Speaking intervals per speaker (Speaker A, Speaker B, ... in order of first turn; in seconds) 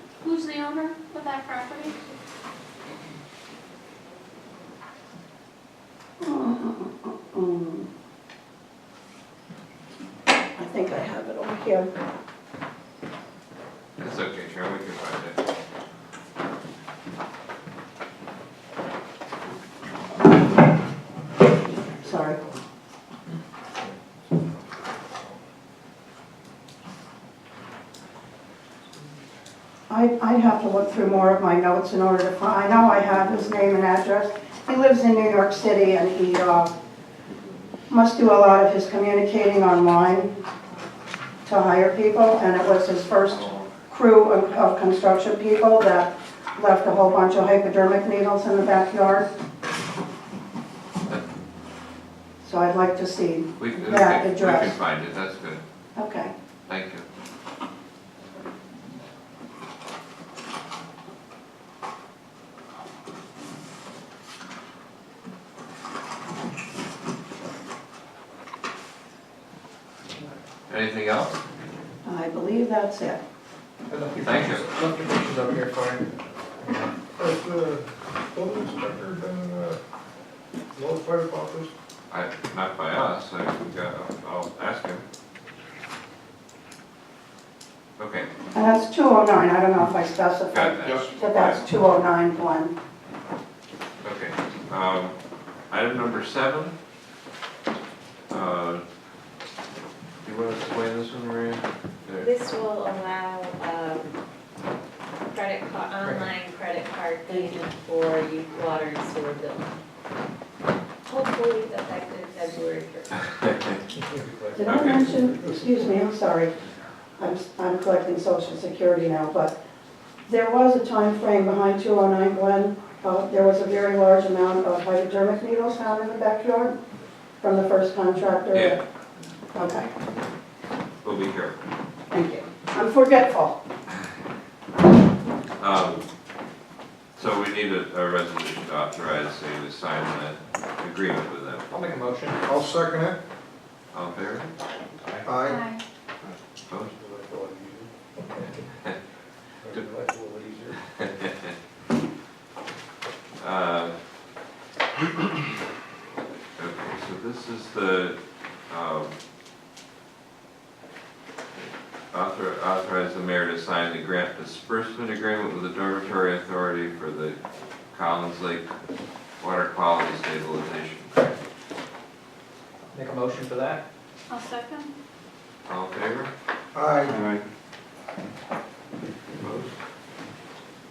Speaker A: 0.2-1.9, 174.3-174.9
Speaker B: 6.2-7.9, 10.6-11.9, 21.9-22.4, 29.9-36.7, 37.9-40.3, 41.4-49.3, 52.4-54.7, 55.9-56.3, 72.0-73.2, 88.5-92.7, 114.5-116.5, 117.2-119.6, 120.2-126.8, 127.4-128.8, 129.5-129.9, 132.1-133.6
Speaker C: 14.0-15.4, 53.6-55.6, 56.7-57.0, 70.7-71.4, 74.2-74.7, 82.1-85.0, 88.0-88.3, 90.5-91.6, 94.0-95.1, 95.7-96.8, 98.3-98.8, 100.2-102.3, 114.7-115.2, 131.0-131.6, 135.6-136.0, 137.2-141.7, 143.9-144.6, 151.2-151.5, 153.4-154.0, 156.6-158.2, 158.7-159.1, 161.5-167.4, 167.9-168.7, 169.4-171.3, 175.7-176.3, 179.4-179.8
Speaker D: 22.0-22.4, 77.2-79.8, 80.7-81.7, 142.4-143.2, 145.2-145.7, 146.9-147.9, 149.6-150.8, 176.7-177.2
Speaker E: 73.9-76.0, 141.7-142.4, 172.9-173.8
Speaker F: 102.2-104.1, 105.3-109.8, 111.0-113.7